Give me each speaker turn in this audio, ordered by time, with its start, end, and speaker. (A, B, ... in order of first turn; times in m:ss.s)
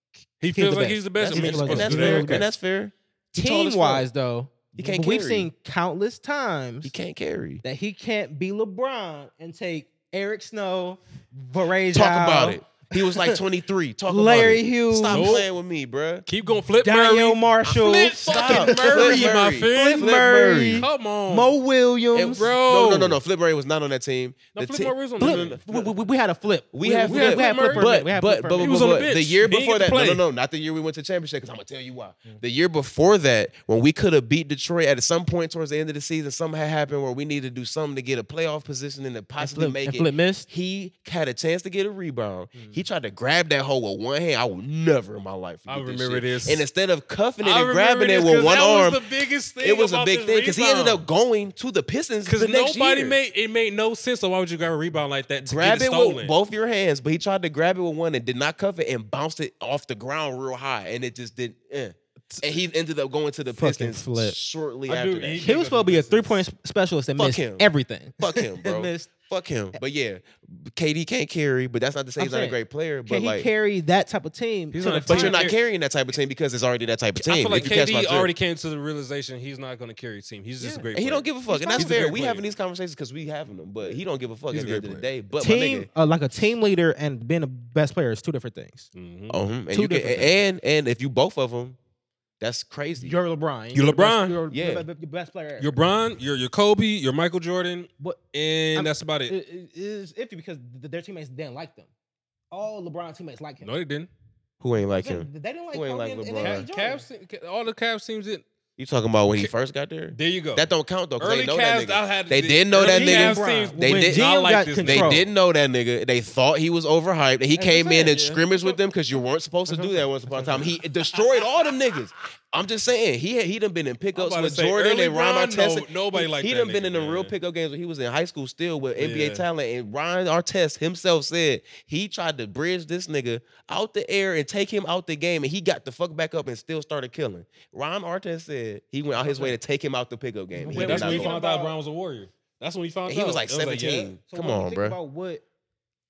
0:00.4-0:02.5 A
0:00.5-0:02.5 B
0:01.2-0:04.1 C
0:03.3-0:06.9 B
0:04.7-0:05.5 C
0:06.8-0:07.6 C
0:07.6-0:13.4 B
0:11.9-0:16.3 C
0:14.1-0:15.4 B
0:15.1-0:15.5 A
0:16.3-0:20.1 A
0:16.7-0:22.5 B
0:18.2-0:20.9 C
0:20.8-0:21.5 A
0:22.1-0:25.6 C
0:22.3-0:23.2 A
0:24.6-0:25.9 A
0:25.2-0:29.0 B
0:26.7-0:49.1 C
0:27.1-0:28.0 A
0:28.6-0:30.2 A
0:39.4-0:40.5 B
0:42.5-0:42.8 B
0:45.7-0:46.6 A
0:47.4-0:51.0 A
0:49.6-0:53.2 C
0:52.3-0:56.3 A
0:55.4-1:05.5 C
1:03.5-1:04.4 B
1:04.9-1:06.4 A
1:05.4-1:09.1 B
1:07.2-1:07.7 C
1:08.2-1:13.5 C
1:12.2-1:15.4 B
1:14.7-1:15.6 A
1:15.1-1:18.3 C
1:17.2-1:22.4 A
1:20.6-1:20.9 B
1:20.9-1:25.9 C
1:21.5-1:22.1 B
1:24.5-1:25.1 A
1:25.4-1:28.9 B
1:28.9-1:29.4 A
1:29.3-1:31.8 C
1:29.7-1:30.4 B
1:32.4-1:33.2 C
1:33.0-1:35.7 B
1:33.7-1:34.4 A
1:34.5-1:34.9 C
1:35.6-1:39.3 A
1:38.8-1:41.9 B
1:42.5-1:43.7 B
1:43.6-1:44.1 A
1:44.6-1:46.7 C
1:45.0-1:47.1 B
1:46.4-1:48.4 A
1:48.8-1:54.3 C
1:50.1-1:55.3 A
1:52.8-1:55.2 B
1:54.8-2:21.4 C
1:57.6-1:58.4 B
1:57.9-1:58.7 A
1:59.7-2:01.2 A
2:04.2-2:07.3 A
2:09.0-2:09.4 A
2:19.2-2:19.6 A
2:20.6-2:21.8 B
2:20.7-2:24.1 A
2:23.1-2:25.0 C
2:24.3-2:25.4 B